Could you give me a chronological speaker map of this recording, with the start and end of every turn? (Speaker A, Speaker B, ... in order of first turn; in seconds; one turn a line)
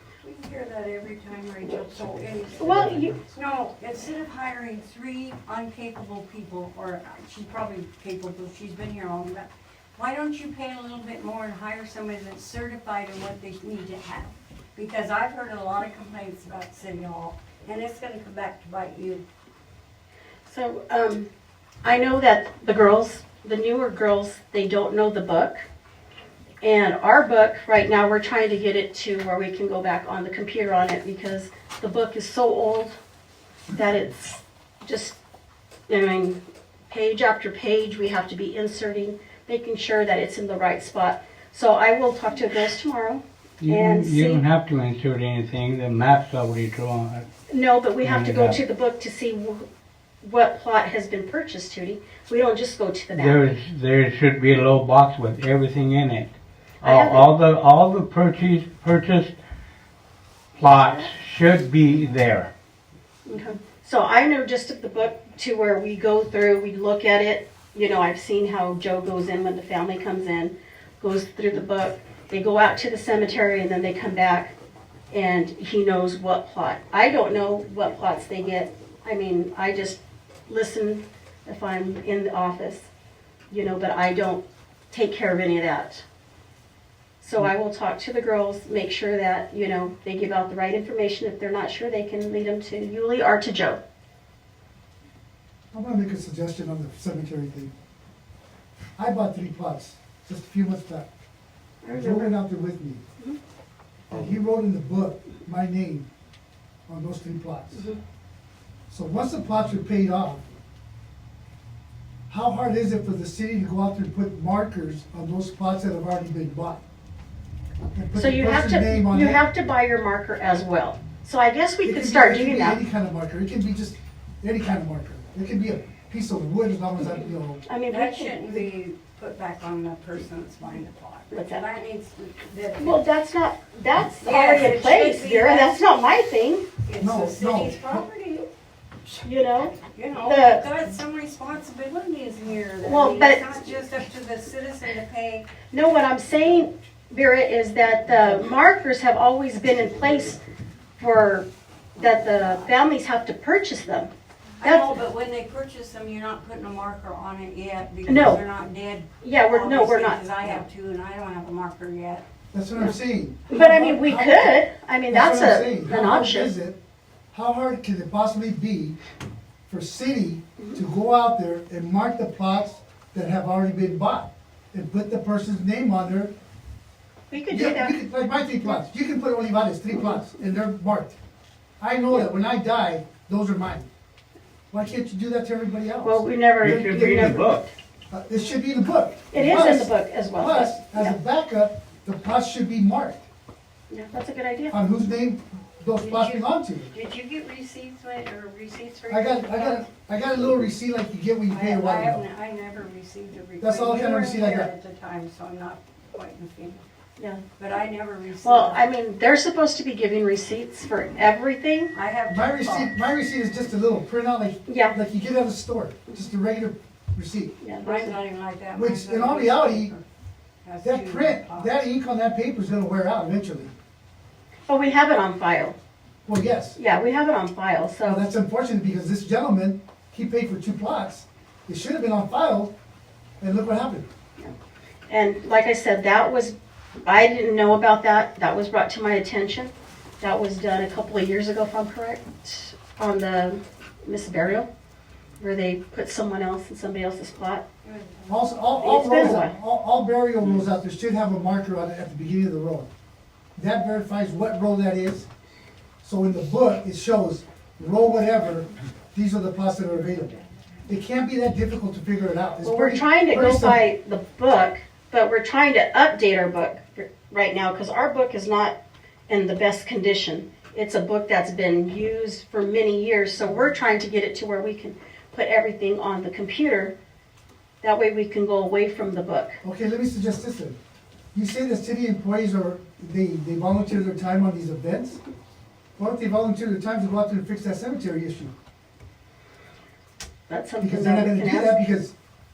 Speaker A: 0.2-19.2
Speaker B: 2.6-3.1
Speaker B: 20.5-21.3
Speaker B: 21.8-25.6
Speaker B: 26.6-32.9
Speaker B: 33.7-35.2
Speaker B: 35.9-44.4
Speaker C: 43.6-47.3
Speaker B: 47.5-49.7
Speaker C: 48.0-48.6
Speaker B: 50.2-53.4
Speaker C: 53.1-59.4
Speaker B: 56.8-57.3
Speaker C: 60.5-62.5
Speaker B: 63.3-74.5
Speaker B: 75.1-82.9
Speaker B: 83.5-86.0
Speaker B: 87.2-93.8
Speaker D: 95.7-97.7
Speaker D: 99.0-101.1
Speaker B: 101.8-102.3
Speaker D: 101.9-103.0
Speaker D: 104.1-106.1
Speaker D: 106.9-107.8
Speaker D: 108.9-110.4
Speaker D: 112.3-116.8
Speaker D: 117.9-119.4
Speaker B: 118.1-122.8
Speaker D: 121.8-127.6
Speaker B: 127.7-128.7
Speaker A: 127.9-133.0
Speaker B: 131.3-131.7
Speaker B: 132.8-136.7
Speaker A: 134.2-135.8
Speaker A: 136.8-138.5
Speaker D: 137.0-138.0
Speaker B: 139.2-140.7
Speaker A: 139.8-145.5
Speaker B: 142.8-143.5
Speaker B: 145.7-150.4
Speaker B: 151.0-154.1
Speaker A: 152.0-152.7
Speaker A: 154.6-162.2
Speaker B: 154.6-155.0
Speaker B: 158.1-158.4
Speaker B: 159.2-160.6
Speaker D: 162.5-164.5
Speaker B: 163.5-166.5
Speaker D: 165.1-166.8
Speaker D: 167.3-168.9
Speaker D: 169.7-176.3
Speaker B: 177.3-178.0
Speaker D: 177.5-181.2
Speaker D: 181.8-183.9
Speaker D: 184.7-187.4
Speaker B: 186.0-187.7
Speaker C: 186.6-187.7
Speaker D: 188.1-193.2
Speaker B: 189.3-191.2
Speaker B: 193.9-194.8
Speaker D: 194.7-196.9
Speaker A: 195.9-199.9
Speaker D: 199.1-202.2
Speaker A: 201.5-206.8
Speaker D: 203.6-204.7
Speaker B: 207.2-207.4
Speaker A: 207.6-208.9
Speaker B: 208.4-211.9
Speaker A: 211.9-213.0
Speaker D: 212.3-217.5
Speaker B: 214.7-215.0
Speaker B: 217.6-218.2
Speaker A: 217.8-220.0
Speaker D: 218.8-219.9
Speaker A: 220.6-221.8
Speaker D: 220.8-223.7
Speaker B: 224.7-225.8
Speaker D: 226.2-226.8
Speaker B: 226.8-228.3
Speaker D: 228.0-232.7
Speaker D: 233.4-234.1
Speaker B: 235.1-244.7
Speaker B: 245.4-247.6
Speaker A: 247.8-248.9
Speaker D: 248.3-252.9
Speaker B: 248.8-249.5
Speaker D: 253.6-255.3
Speaker D: 256.0-263.8
Speaker B: 262.6-268.8
Speaker B: 269.3-276.9
Speaker B: 277.8-279.6
Speaker D: 279.6-280.8
Speaker D: 281.3-285.2
Speaker D: 286.0-288.5
Speaker B: 290.5-291.8
Speaker D: 290.8-292.1